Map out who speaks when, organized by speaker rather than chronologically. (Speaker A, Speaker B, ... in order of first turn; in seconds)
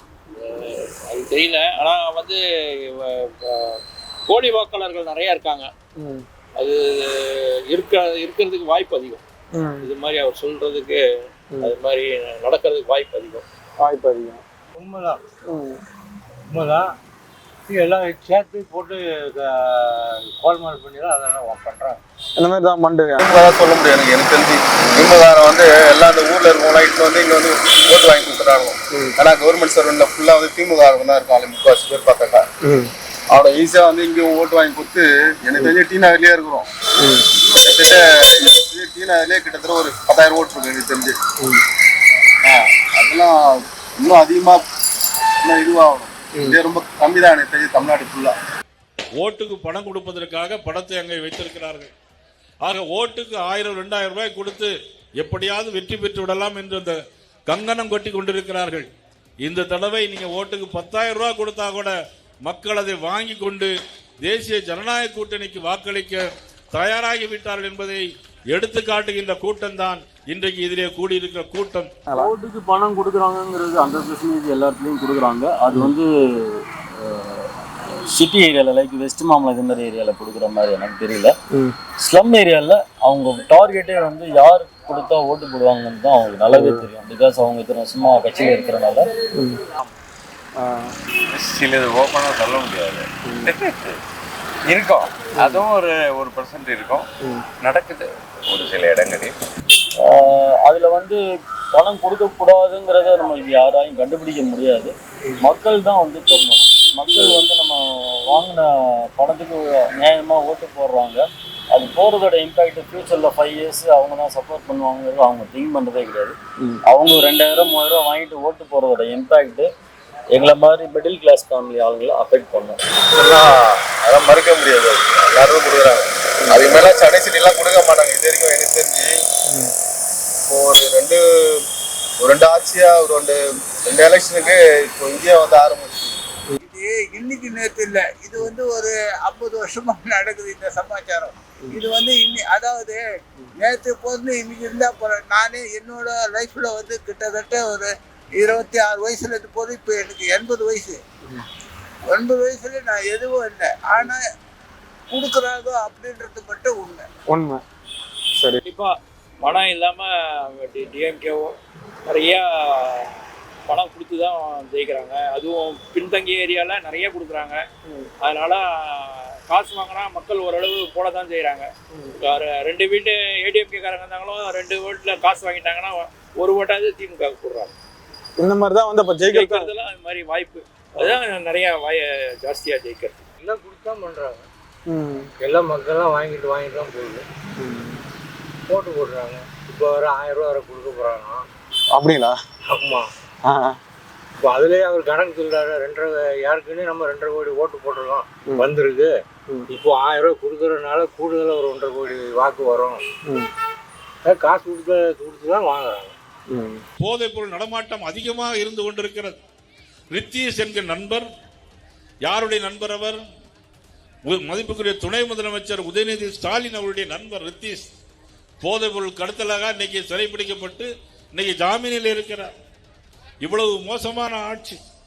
Speaker A: 0.4-5.7, 6.6-9.2, 9.8-11.0, 11.6-13.4, 158.7-158.9, 159.4-160.1, 160.6-161.5, 162.1-163.1, 163.7-167.6, 168.2-171.7, 172.2-177.8, 179.3-183.2
Speaker B: 6.0-6.2, 9.6-9.9, 13.8-14.4, 15.5-15.8, 22.4-23.2, 32.6-32.9, 90.6-90.9, 157.3-157.6, 178.4-179.6, 184.9-185.3, 187.6-188.0, 191.9-192.4, 193.4-193.8, 203.3-203.5, 206.5-206.8
Speaker C: 14.8-15.2, 16.5-16.9, 17.7-22.0, 183.4-184.5, 185.4-187.3, 188.7-191.5, 192.7-193.1, 194.4-203.2, 204.2-206.2
Speaker D: 23.2-32.5, 33.3-36.7, 37.3-41.2, 42.4-44.6, 45.4-48.4, 123.1-129.1, 130.5-131.6, 132.2-136.2
Speaker E: 49.2-51.9, 52.6-57.0, 57.5-58.9, 59.4-61.9, 62.4-63.7, 64.2-71.9, 207.0-209.3, 210.1-211.3, 212.2-213.2, 214.3-217.8, 218.6-222.5, 223.4-224.8
Speaker F: 72.1-77.5, 78.1-81.3, 82.0-89.1, 100.0-101.2, 101.7-116.4, 116.9-119.7, 120.3-122.8
Speaker G: 89.6-90.0, 91.3-94.0, 94.7-99.4
Speaker H: 136.6-143.0, 143.6-151.0, 152.1-154.2, 155.1-157.1